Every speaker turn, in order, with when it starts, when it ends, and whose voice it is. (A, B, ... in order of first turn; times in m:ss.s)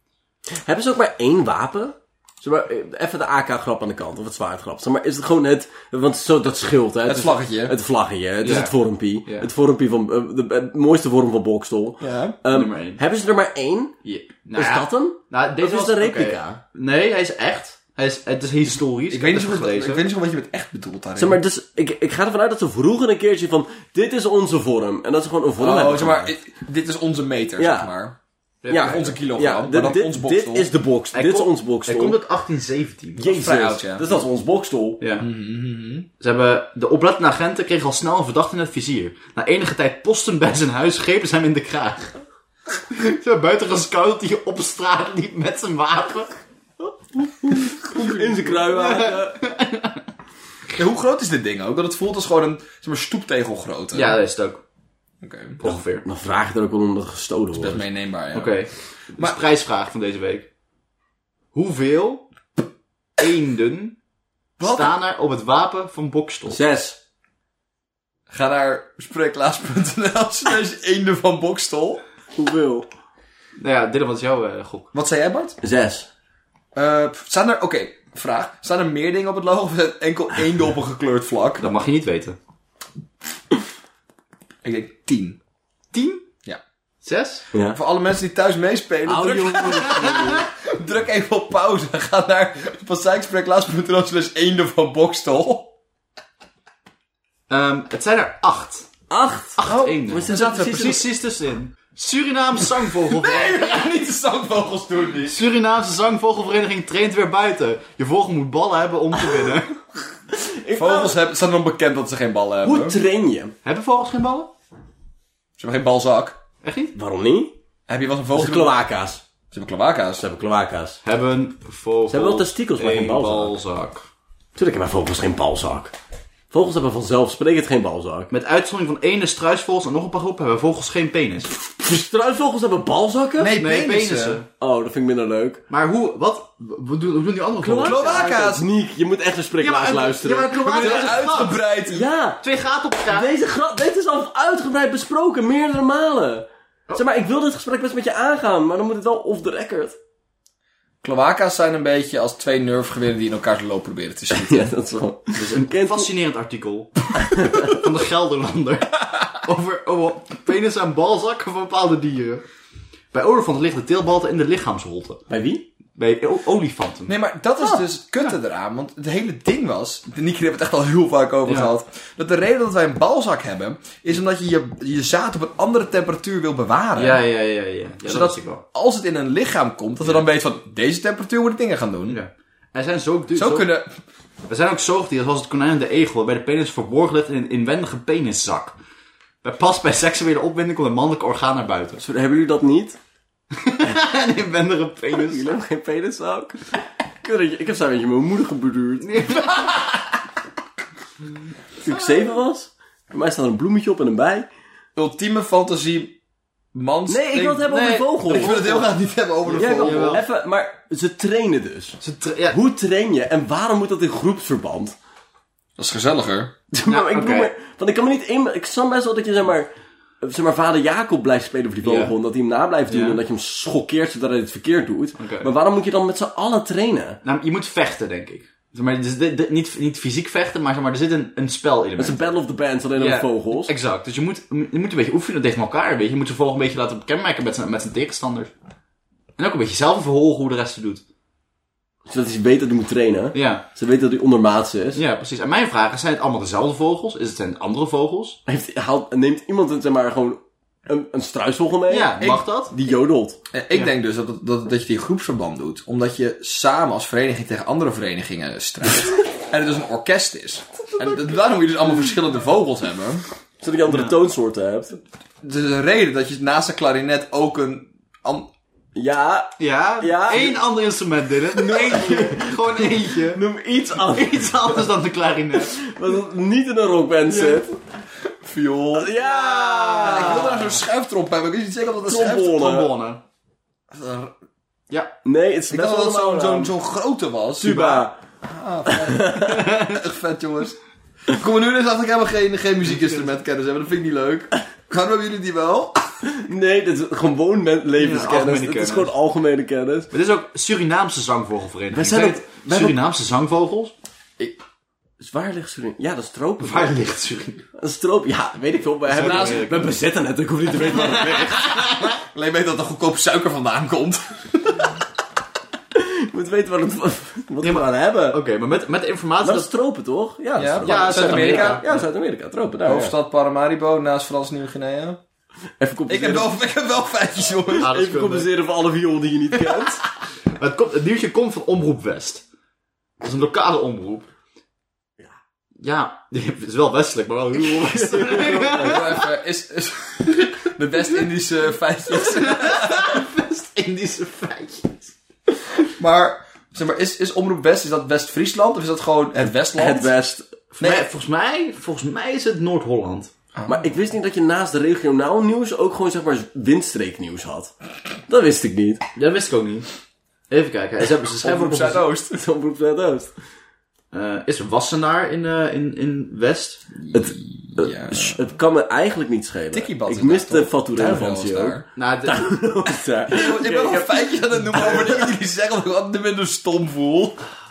0:00.6-0:13.9 A
0:07.0-0:07.7 B
0:08.4-0:08.7 C
0:12.0-0:12.4 B
0:12.5-0:13.0 C
0:14.0-0:20.0 C
0:14.5-0:16.6 A
0:19.1-0:21.4 B
0:21.2-0:26.3 A
0:25.6-0:28.2 B
0:27.6-0:27.9 A
0:28.6-0:29.2 C
0:28.7-0:32.2 A
0:28.7-0:30.7 B
0:31.1-0:33.3 C
0:33.2-0:35.0 A
0:33.2-0:34.1 B
0:35.0-0:35.3 C
0:35.2-0:36.1 B
0:36.2-0:42.1 C
0:42.9-0:46.4 C
0:47.2-0:49.4 A
0:47.9-0:48.4 B
0:48.6-0:50.0 C
0:50.7-0:54.2 B
0:53.9-0:54.6 C
0:55.2-0:55.6 B
0:55.6-0:56.0 C
0:55.6-0:57.8 A
0:57.5-0:58.6 B
0:58.3-1:00.5 C
1:01.5-1:02.2 C
1:03.2-1:04.0 C
1:04.6-1:04.9 B
1:04.6-1:06.6 C
1:06.5-1:07.0 A
1:08.3-1:12.0 B
1:12.4-1:12.9 A
1:13.6-1:14.9 C
1:14.9-1:15.6 B
1:15.6-1:16.1 A
1:16.7-1:21.6 B
1:21.6-1:22.4 C
1:24.6-1:25.4 B
1:25.9-1:26.2 C
1:27.0-1:27.4 C
1:27.5-1:27.8 A
1:27.7-1:35.7 B
1:29.0-1:30.5 A
1:37.5-1:38.9 C
1:39.1-1:41.0 A
1:39.6-1:43.9 C
1:39.6-1:41.0 B
1:43.0-1:45.4 B
1:45.2-1:49.8 C
1:50.3-1:51.2 A
1:50.8-1:52.9 B
1:52.6-1:53.5 A
1:53.6-1:54.5 C
1:55.6-1:56.4 B
1:56.6-1:56.9 C
1:56.9-1:57.5 A
1:57.9-1:58.8 B
1:58.3-1:59.2 A
1:59.5-2:00.2 B
2:00.2-2:01.0 A
2:01.0-2:04.0 C
2:02.1-2:03.5 A
2:04.6-2:05.9 A
2:06.5-2:08.3 A
2:08.3-2:11.5 C
2:11.6-2:13.5 A
2:13.4-2:14.4 B
2:13.6-2:14.5 C
2:14.6-2:15.6 A
2:15.7-2:18.3 C
2:17.6-2:21.1 A
2:17.8-2:18.6 B
2:19.6-2:21.6 C
2:20.6-2:22.1 B
2:21.9-2:22.4 A
2:22.4-2:23.3 C
2:23.1-2:30.0 A
2:31.0-2:34.7 B
2:34.3-2:36.1 A
2:35.4-2:42.4 C
2:37.2-2:37.7 A
2:43.1-2:45.2 C
2:45.3-2:45.6 A
2:46.0-2:47.1 C
2:47.1-2:57.2 B
2:51.4-2:51.7 C
2:57.0-2:58.6 C
2:58.0-3:02.2 B
3:02.1-3:03.7 C
3:03.3-3:03.9 B
3:04.5-3:08.8 C
3:09.4-3:12.0 C
3:12.0-3:13.0 A
3:13.5-3:15.6 C
3:15.1-3:16.6 A
3:17.2-3:19.3 A
3:19.0-3:19.8 C
3:21.8-3:24.5 A
3:25.0-3:26.2 B
3:26.7-3:30.2 B
3:27.1-3:28.9 A
3:27.7-3:28.6 C
3:29.4-3:35.0 A
3:29.7-3:30.2 C
3:32.0-3:32.6 C
3:35.8-3:36.5 B
3:36.7-3:47.2 A
3:36.9-3:37.5 C
3:41.8-3:42.1 C
3:42.9-3:43.2 C
3:45.2-3:45.5 C
3:47.2-3:52.3 C
3:52.0-3:53.7 A
3:53.0-3:58.5 C
3:59.4-4:01.0 C
4:02.0-4:05.0 A
4:03.3-4:03.6 C
4:05.0-4:08.4 C
4:08.4-4:13.4 A
4:11.9-4:12.7 C
4:12.2-4:12.4 B
4:13.5-4:23.2 B
4:23.6-4:25.0 A
4:23.9-4:24.1 C
4:25.4-4:28.5 B
4:28.9-4:30.6 A
4:29.6-4:33.4 C
4:31.5-4:34.8 A
4:34.0-4:35.8 C
4:35.6-4:37.7 A
4:38.4-4:39.1 B
4:38.9-4:40.6 A
4:39.2-4:40.7 C
4:40.0-4:42.7 B
4:42.1-4:42.9 A
4:42.6-4:43.2 C
4:43.9-4:44.3 B
4:45.2-4:46.7 A
4:45.7-4:56.2 B
4:47.6-4:48.2 A
4:48.8-4:49.6 A
4:49.5-4:50.0 C
4:56.3-5:00.1 A
4:58.0-4:59.1 C
5:00.1-5:03.9 C
5:01.9-5:03.0 A
5:05.2-5:07.0 A
5:06.6-5:07.6 C
5:07.8-5:11.7 A
5:09.1-5:09.9 C
5:09.2-5:09.8 B
5:10.8-5:12.1 C
5:12.0-5:14.9 B
5:15.9-5:18.4 A
5:17.6-5:19.7 C
5:19.4-5:23.1 A
5:20.6-5:21.8 B
5:20.6-5:22.0 C
5:22.9-5:25.2 B
5:25.8-5:26.5 A
5:26.1-5:27.9 B
5:27.7-5:30.0 A
5:27.8-5:28.5 C
5:30.6-5:32.4 C
5:33.2-5:34.3 C
5:35.8-5:39.2 C
5:37.8-5:39.0 A
5:38.1-5:43.2 B
5:42.1-5:45.1 C
5:46.0-5:50.1 B
5:49.7-5:50.5 A
5:50.8-5:51.1 B
5:50.8-5:53.3 C
5:53.5-5:53.9 B
5:53.7-5:57.7 A
5:58.3-5:59.0 A
5:59.2-5:59.9 C
6:00.5-6:02.0 C
6:01.4-6:02.4 B
6:02.3-6:03.3 A
6:04.1-6:06.9 C
6:07.0-6:08.4 B
6:07.1-6:15.2 A
6:09.7-6:11.8 B
6:12.0-6:12.6 C
6:13.3-6:17.4 B